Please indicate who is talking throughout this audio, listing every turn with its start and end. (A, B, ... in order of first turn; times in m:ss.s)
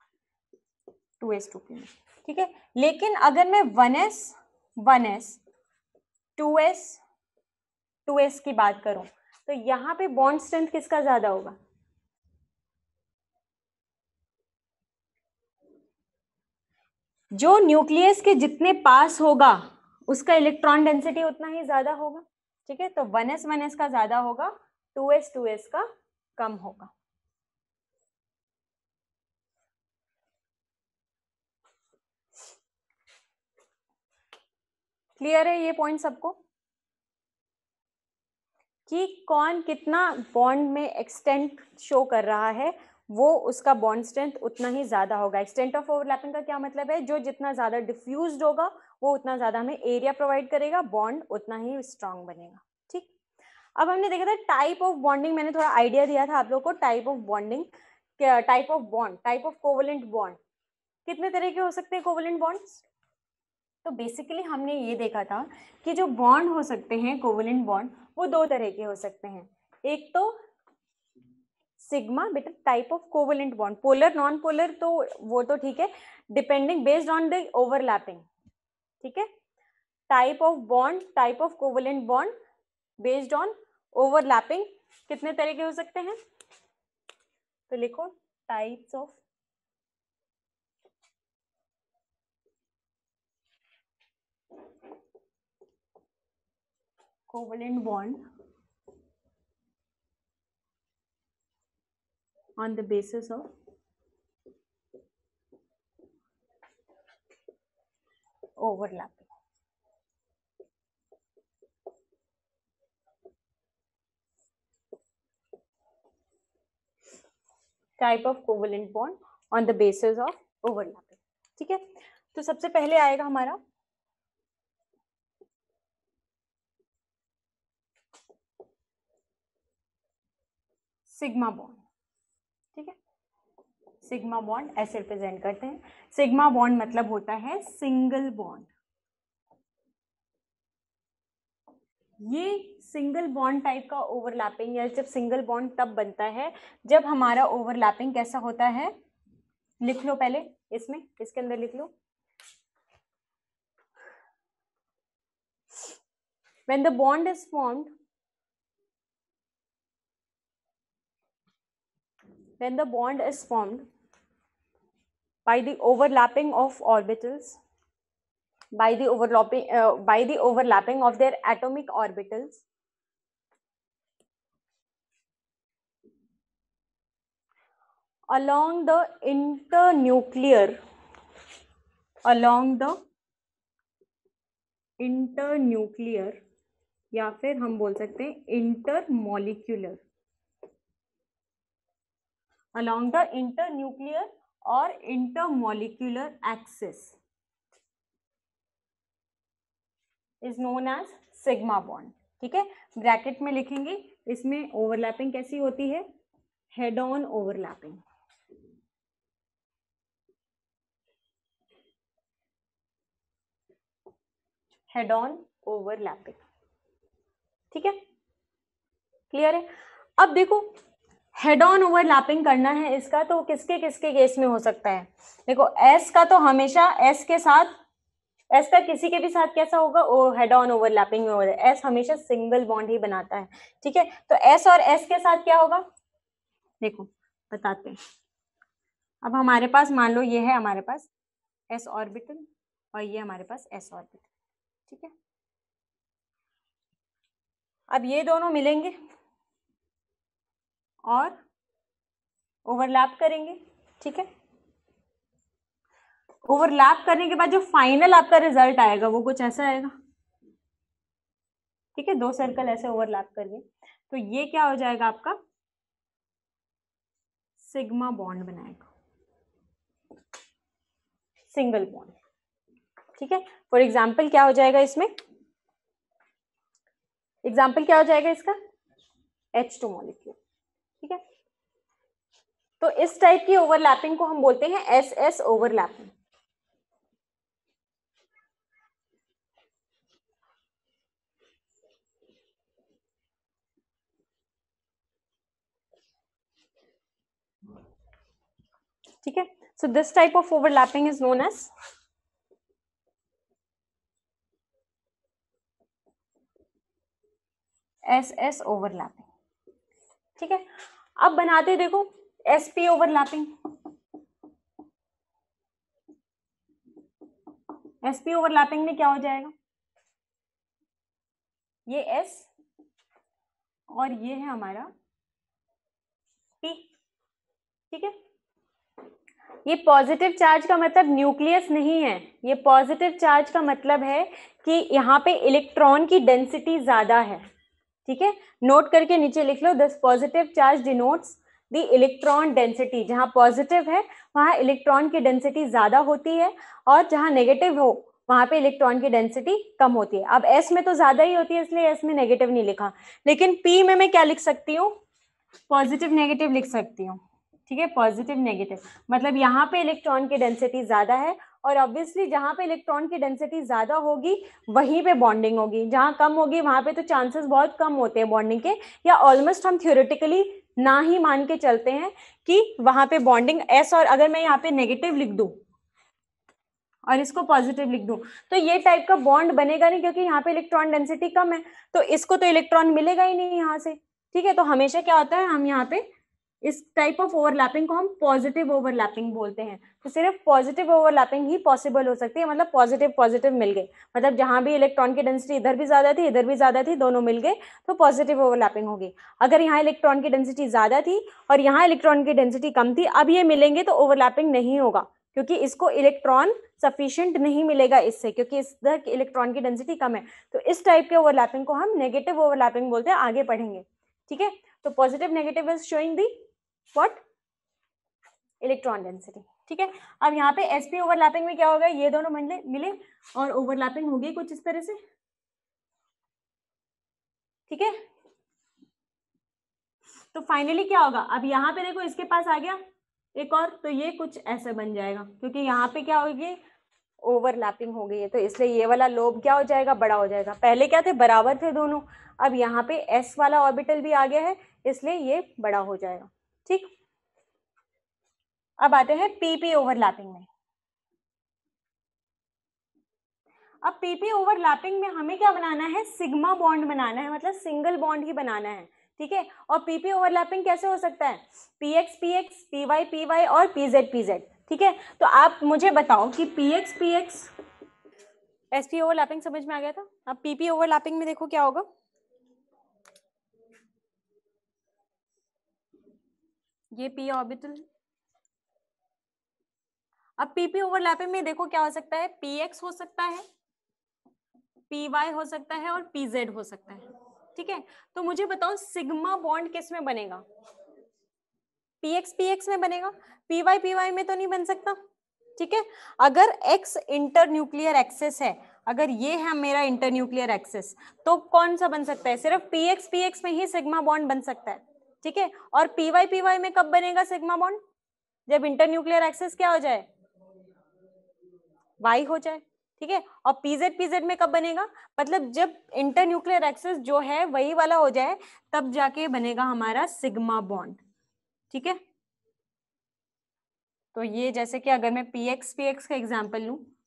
0:01.2-0:05.4 A
0:06.4-0:07.0 A
0:08.1-0:11.6 A
0:17.4-0:25.9 A
0:26.4-0:26.9 A
0:35.2-0:36.4 A
0:38.9-0:53.1 A
0:53.8-1:00.4 A
1:01.1-1:02.8 A
1:03.8-1:10.4 A
1:11.8-1:18.2 A
1:19.0-1:19.3 A
1:20.1-1:22.3 A
1:23.0-1:26.2 A
1:27.7-1:29.2 A
1:37.3-1:38.2 A
1:42.6-1:43.5 A
1:48.6-1:49.3 A
1:58.0-2:03.6 A
2:11.1-2:11.8 A
2:14.0-2:18.7 A
2:22.3-2:28.9 A
2:29.8-2:31.9 A
2:36.7-2:37.9 A
2:42.6-2:43.9 A
2:45.5-2:47.6 A
2:48.8-2:52.6 A
2:58.3-3:00.8 A
3:02.2-3:03.0 A
3:05.0-3:06.4 A
3:07.1-3:10.0 A
3:12.8-3:17.2 A
3:20.4-3:26.1 A
3:26.7-3:28.0 A
3:34.9-3:36.4 A
3:37.7-3:38.0 A
3:39.3-3:39.7 A
3:40.2-3:40.7 A
3:41.4-3:47.7 A
3:48.5-3:55.8 A
3:56.8-3:58.0 A
3:59.2-4:01.1 A
4:01.7-4:04.3 A
4:04.9-4:05.1 A
4:07.9-4:09.0 A
4:11.1-4:11.4 A
4:12.7-4:14.3 A
4:16.5-4:19.9 A
4:22.0-4:25.4 A
4:27.6-4:28.9 A
4:31.5-4:32.2 A
4:33.2-4:35.1 A
4:37.4-4:38.6 A
4:39.6-4:40.4 A
4:42.8-4:46.1 A
4:59.2-5:01.7 A
5:08.1-5:09.3 A
5:10.4-5:10.6 A
5:11.2-5:13.5 A
5:18.0-5:19.5 A
5:21.9-5:22.5 A
5:23.9-5:24.9 A
5:29.6-5:37.5 A
5:38.1-5:55.0 A
5:55.7-6:15.6 A
6:17.1-6:26.1 A
6:26.6-6:56.4 A
6:56.9-6:57.2 A
6:58.6-7:05.0 A
7:07.7-7:08.0 A
7:10.3-7:12.8 A
7:13.4-7:16.6 A
7:17.2-7:26.9 A
7:28.8-7:30.5 A
7:33.8-7:47.5 A
7:48.7-7:51.9 A
7:56.9-7:57.9 A
8:00.4-8:03.4 A
8:04.9-8:07.0 A
8:07.6-8:10.4 A
8:12.0-8:15.0 A
8:15.6-8:27.8 A
8:28.5-8:30.1 A
8:32.0-8:41.0 A
8:41.7-8:42.0 A
8:44.1-8:46.8 A